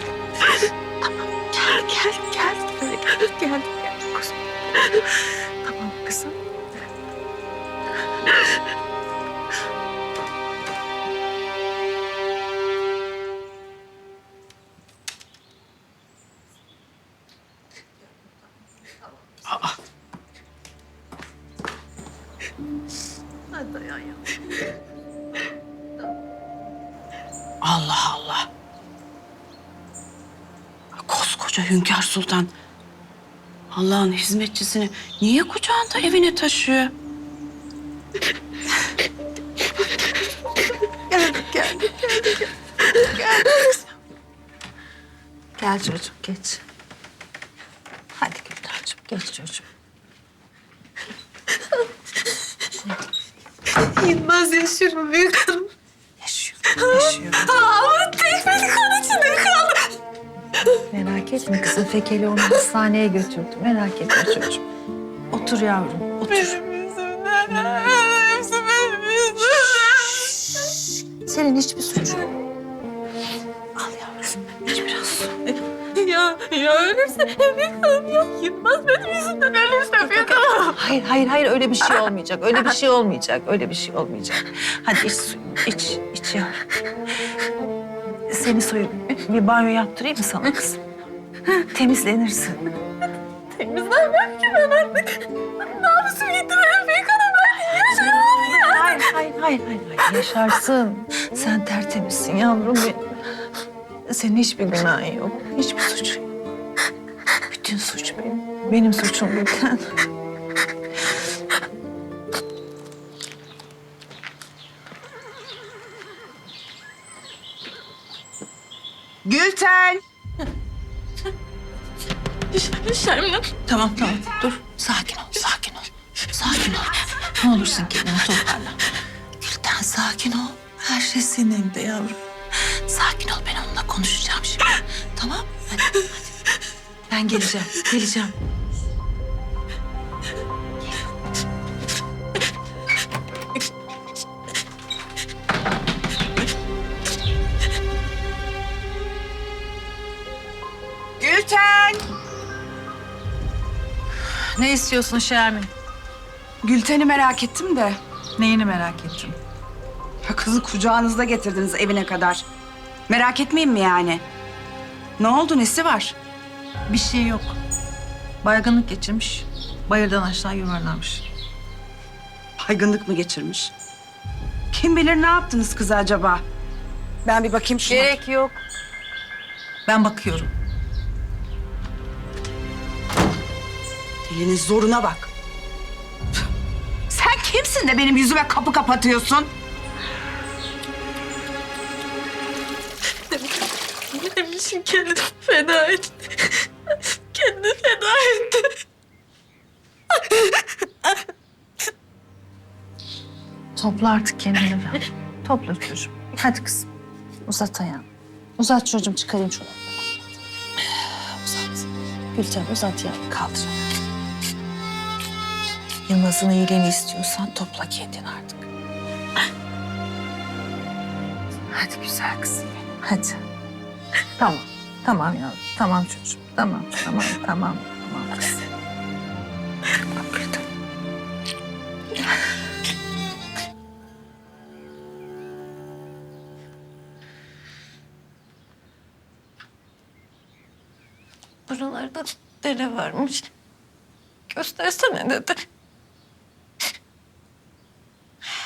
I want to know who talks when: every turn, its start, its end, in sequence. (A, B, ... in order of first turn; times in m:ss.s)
0:00.5-0:06.4 A
0:19.5-0:19.8 B
0:23.6-0:24.1 C
0:27.6-0:28.5 B
0:31.0-0:32.5 B
0:33.7-0:36.9 B
0:41.1-0:43.8 A
0:45.6-0:46.6 A
0:48.2-0:49.7 A
0:53.8-0:55.7 C
0:56.2-0:57.6 A
0:56.8-0:59.9 C
1:00.9-1:04.6 A
1:05.3-1:06.6 A
1:06.3-1:10.8 C
1:10.3-1:12.3 A
1:13.8-1:15.5 A
1:15.8-1:20.9 C
1:20.7-1:26.6 A
1:28.3-1:30.8 A
1:31.5-1:32.7 A
1:33.5-1:39.1 C
1:37.9-1:43.0 A
1:44.1-1:46.3 A
1:47.5-1:50.0 A
1:59.2-2:00.0 B
2:02.5-2:03.5 C
2:03.6-2:08.8 A
2:09.4-2:16.0 A
2:17.1-2:18.3 A
2:31.2-2:32.0 B
2:34.5-2:35.7 A
2:36.6-2:38.0 B
2:38.4-2:39.4 A
2:40.2-2:42.4 B
2:43.1-2:44.2 B
2:45.2-2:46.2 B
2:46.9-2:47.6 A
2:48.4-2:51.2 A
2:52.6-2:53.7 B
2:54.7-2:56.4 B
2:57.2-2:58.2 B
2:57.9-2:58.6 A
2:59.8-3:00.5 A
3:04.2-3:05.3 B
3:07.1-3:09.5 B
3:13.3-3:18.7 C
3:20.1-3:21.1 C
3:23.8-3:26.9 A
3:27.5-3:28.0 A
3:28.6-3:30.2 A
3:30.9-3:33.8 A
3:36.0-3:38.7 A
3:41.7-3:43.4 A
3:44.4-3:48.6 A
3:49.9-3:50.6 A
4:01.7-4:03.5 C
4:04.5-4:05.6 C